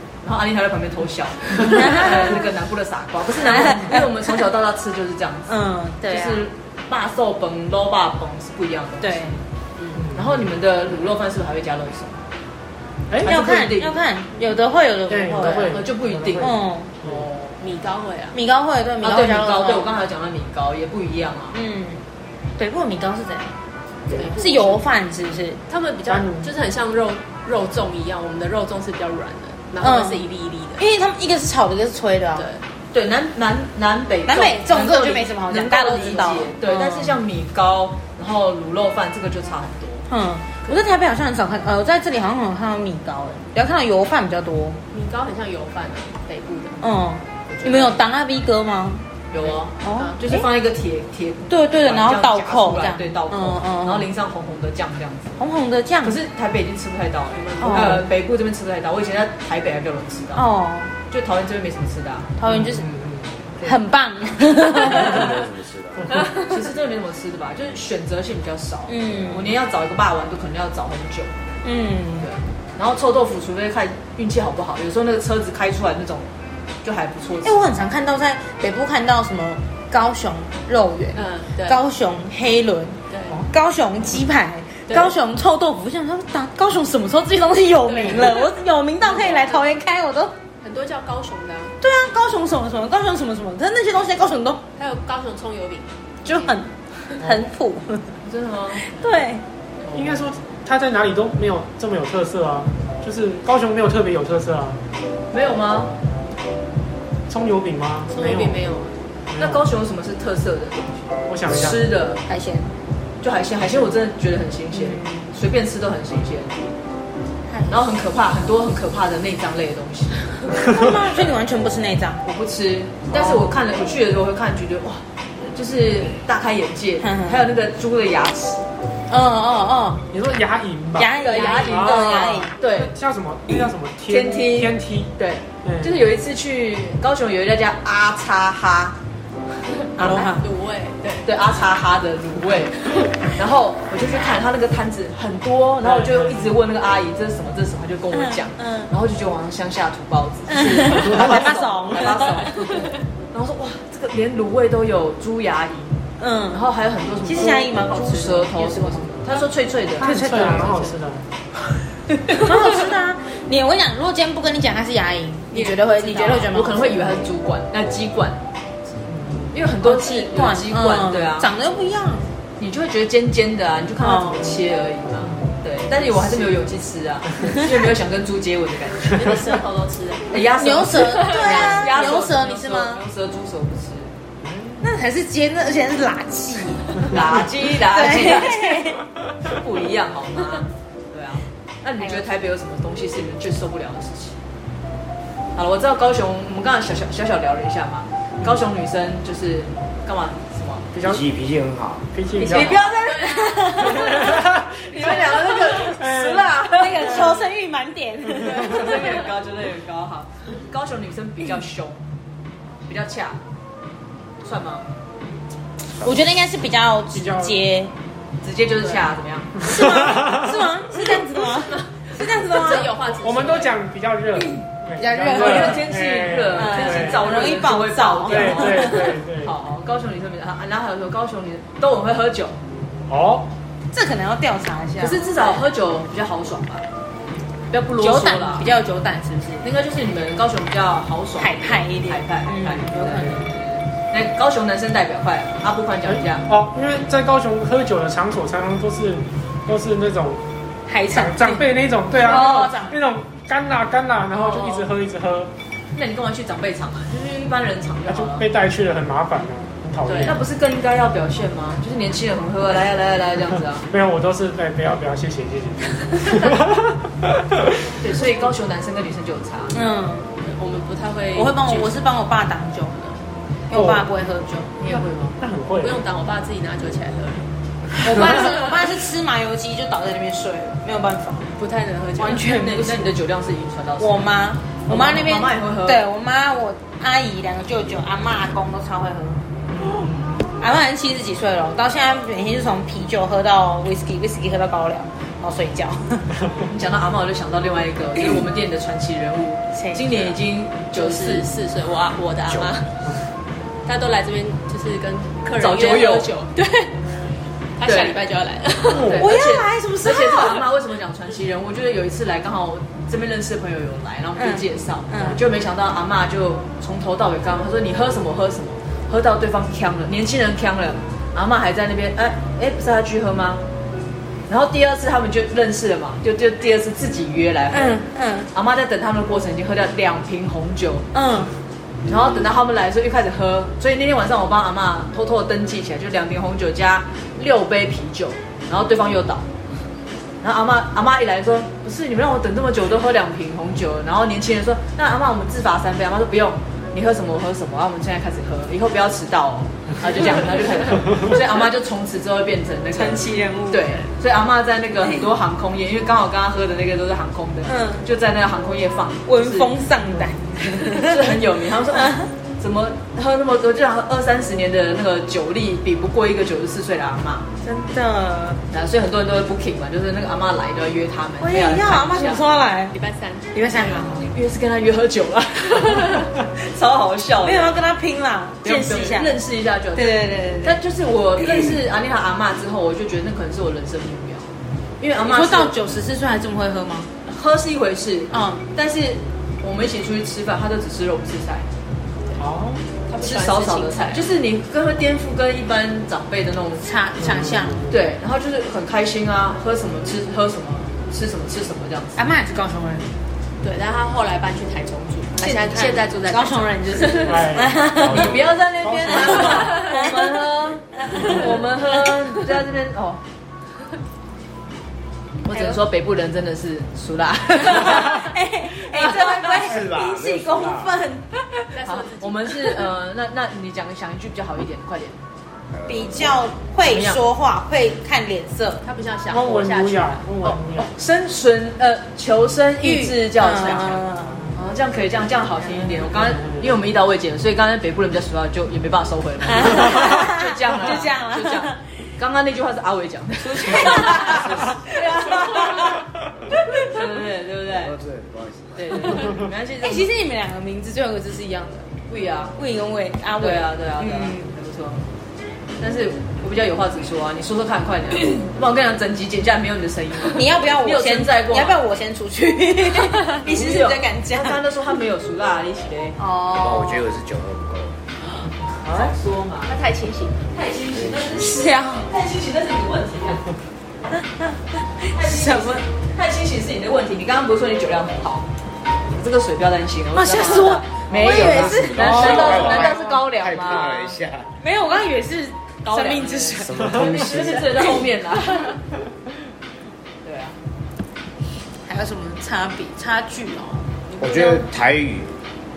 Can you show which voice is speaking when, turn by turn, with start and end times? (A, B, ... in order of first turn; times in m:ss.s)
0:00.2-0:09.4 A
0:01.7-0:02.4 B
0:03.4-0:04.5 B
0:05.5-0:06.4 B
0:09.0-0:09.4 B
0:10.0-0:10.4 C
0:10.2-0:12.2 A
0:13.1-0:13.4 C
0:13.2-0:15.8 B
0:13.2-0:14.0 A
0:15.1-0:16.5 C
0:15.5-0:17.5 A
0:16.4-0:16.9 B
0:17.0-0:17.3 C
0:17.6-0:18.4 D
0:18.3-0:19.9 B
0:19.0-0:21.6 A
0:21.5-0:22.0 B
0:22.6-0:23.5 B
0:24.1-0:24.9 D
0:24.4-0:25.6 B
0:25.7-0:30.8 D
0:26.1-0:26.5 C
0:29.8-0:30.3 B
0:30.8-0:32.5 B
0:32.4-0:32.6 D
0:32.9-0:40.1 A
0:34.2-0:37.2 B
0:35.8-0:36.4 D
0:40.1-0:44.8 B
0:44.9-0:46.9 D
0:46.8-0:49.1 B
0:47.5-0:48.0 D
0:49.3-0:55.4 A
0:49.4-0:50.4 D
0:49.8-0:50.5 B
0:51.5-0:54.1 B
0:55.4-0:56.2 B
0:56.0-1:00.4 A
0:57.3-0:58.1 D
0:57.6-0:58.1 B
1:00.3-1:00.9 B
1:01.1-1:02.4 A
1:02.4-1:02.9 B
1:02.4-1:03.7 C
1:03.6-1:05.5 B
1:04.7-1:06.1 E
1:06.2-1:11.4 A
1:08.9-1:09.6 B
1:11.6-1:12.3 B
1:12.2-1:16.3 A
1:16.8-1:17.6 A
1:17.4-1:30.4 B
1:21.2-1:21.8 D
1:23.1-1:23.4 D
1:24.9-1:25.1 D
1:27.9-1:28.5 D
1:29.0-1:29.7 D
1:30.6-1:31.8 D
1:31.8-1:34.6 B
1:34.8-1:36.6 D
1:36.2-1:38.2 B
1:38.2-1:38.9 A
1:38.8-1:39.4 B
1:39.8-1:40.1 A
1:39.9-1:44.8 C
1:45.3-1:45.9 A
1:47.3-1:48.6 C
1:48.1-1:49.0 D
1:49.3-1:49.7 C
1:49.4-1:52.2 A
1:51.3-1:51.8 C
1:52.2-1:52.7 B
1:53.2-1:56.7 A
1:54.7-1:55.3 B
1:57.5-1:57.9 B
1:57.7-2:00.2 A
2:00.6-2:02.2 B
2:02.2-2:08.6 A
2:03.1-2:03.6 B
2:07.0-2:07.4 B
2:09.1-2:10.1 B
2:10.1-2:15.1 C
2:11.0-2:12.5 B
2:11.2-2:11.9 D
2:11.2-2:12.9 A
2:14.1-2:19.0 A
2:15.6-2:16.0 C
2:20.0-2:20.4 B
2:20.0-2:21.3 D
2:21.2-2:36.0 A
2:25.8-2:26.5 C
2:28.1-2:28.9 B
2:30.5-2:32.5 B
2:36.2-2:36.6 B
2:36.5-2:40.2 A
2:37.2-2:39.3 B
2:40.0-2:41.2 C
2:40.0-2:40.8 B
2:40.6-2:40.9 D
2:42.3-2:47.2 B
2:45.5-2:47.1 D
2:46.1-2:48.4 A
2:49.1-2:49.5 C
2:49.5-2:51.5 A
2:49.8-2:52.3 B
2:52.6-2:59.3 A
2:54.0-2:54.6 B
2:56.2-2:56.5 D
2:59.0-3:00.4 D
3:00.3-3:04.1 A
3:00.4-3:03.0 B
3:00.9-3:02.0 D
3:04.4-3:04.8 C
3:04.8-3:09.0 B
3:07.1-3:08.8 A
3:09.5-3:14.4 A
3:12.0-3:12.3 B
3:15.6-3:20.9 A
3:20.9-3:21.2 C
3:21.0-3:22.1 E
3:22.1-3:22.8 C
3:22.4-3:22.9 A
3:22.5-3:24.3 B
3:22.6-3:24.3 D
3:23.8-3:24.3 A
3:24.0-3:25.1 C
3:24.9-3:27.3 A
3:24.9-3:25.9 D
3:25.8-3:27.4 C
3:26.8-3:29.2 B
3:28.4-3:32.0 A
3:32.9-3:33.4 A
3:34.4-3:34.9 A
3:36.0-3:37.9 B
3:37.1-3:37.6 C
3:38.4-3:39.8 A
3:39.6-3:42.9 B
3:39.6-3:40.4 C
3:41.7-3:43.8 D
3:43.0-3:47.3 C
3:45.0-3:45.8 B
3:45.3-3:52.6 A
3:46.5-3:49.1 B
3:48.2-3:49.5 C
3:53.1-3:53.5 C
3:53.9-3:55.6 B
3:55.0-3:56.9 A
3:57.7-3:58.7 A
3:58.0-3:59.7 B
3:59.6-4:06.4 A
4:01.4-4:03.5 B
4:06.1-4:10.4 C
4:10.9-4:13.0 B
4:11.1-4:15.5 C
4:14.4-4:14.8 A
4:15.9-4:18.4 A
4:18.1-4:20.4 C
4:20.1-4:20.3 D
4:20.2-4:23.8 A
4:23.9-4:27.9 C
4:28.0-4:29.8 A
4:29.7-4:30.3 B
4:30.4-4:32.0 D
4:31.3-4:33.2 B
4:33.7-4:34.7 B
4:33.7-4:34.1 C
4:34.8-4:35.4 A
4:35.4-4:36.0 C
4:35.8-4:37.4 D
4:38.0-4:38.7 D
4:38.0-4:41.5 B
4:41.5-4:42.5 D
4:42.2-4:43.2 B
4:42.2-4:44.3 A
4:44.0-4:49.5 B
4:44.9-4:46.0 A
4:49.8-4:50.4 C
4:50.6-4:56.3 B
4:56.7-5:01.5 A
4:59.7-5:00.1 B
5:00.9-5:02.9 D
5:02.5-5:02.8 E
5:03.8-5:07.0 D
5:05.6-5:06.3 A
5:07.8-5:09.2 D
5:07.8-5:08.2 A
5:08.9-5:09.3 C
5:09.0-5:23.6 A
5:09.0-5:10.6 B
5:14.4-5:15.4 B
5:24.5-5:28.0 A
5:27.7-5:28.5 B
5:28.5-5:31.1 A
5:31.1-5:31.5 B
5:32.1-5:39.4 A
5:40.4-5:59.8 A
5:52.9-5:54.0 B
5:57.7-5:58.1 B
5:59.3-6:02.3 B
6:00.8-6:07.4 A
6:07.6-6:08.6 B
6:08.7-6:12.4 A
6:11.4-6:13.0 B
6:12.9-6:14.3 D
6:13.5-6:14.3 B
6:14.2-6:17.8 A
6:17.4-6:19.4 B
6:18.6-6:25.8 A
6:19.9-6:20.8 B
6:21.4-6:21.8 B
6:25.2-6:27.1 B
6:27.3-6:31.7 A
6:28.3-6:28.6 B
6:32.4-6:32.8 C
6:33.1-6:34.2 D
6:33.2-6:36.8 A
6:36.8-6:37.8 B
6:37.2-6:38.0 C
6:37.9-6:42.2 A
6:42.2-6:43.1 B
6:43.6-6:47.4 D
6:45.4-6:48.3 B
6:47.0-6:48.6 E
6:47.2-6:47.8 C
6:48.0-6:53.2 A
6:48.8-6:49.8 C
6:49.1-6:50.4 B
6:51.0-6:51.5 B
6:55.4-6:59.7 A
6:57.6-7:01.2 B
6:59.5-7:01.0 E
7:01.7-7:02.7 D
7:01.8-7:05.2 A
7:05.7-7:06.5 E
7:05.9-7:08.8 B
7:06.8-7:07.2 A
7:08.8-7:10.6 D
7:09.3-7:10.9 C
7:10.5-7:26.0 A
7:12.8-7:14.5 B
7:16.1-7:16.7 C
7:19.4-7:21.8 B
7:23.4-7:25.9 B
7:26.7-7:27.9 A
7:27.7-7:29.2 E
7:28.8-7:30.1 A
7:29.8-7:31.9 B
7:32.1-7:32.6 A
7:32.6-7:34.5 B
7:33.4-7:35.0 A
7:35.8-7:41.8 A
7:40.3-7:44.6 B
7:43.4-7:46.2 A
7:46.3-7:46.9 D
7:46.3-7:46.9 B
7:46.5-7:48.0 E
7:48.8-7:49.8 A
7:49.7-7:50.4 D
7:50.5-7:53.5 A
7:50.9-7:51.4 E
7:51.4-7:52.1 B
7:54.1-7:55.8 B
7:55.1-7:58.5 A
7:59.1-8:04.2 A
8:00.1-8:03.0 B
8:01.1-8:04.6 E
8:02.2-8:02.4 C
8:04.6-8:08.0 B
8:05.8-8:08.8 A
8:06.6-8:08.0 E
8:10.2-8:10.6 A
8:11.8-8:13.9 B
8:14.1-8:14.6 D
8:14.2-8:15.3 E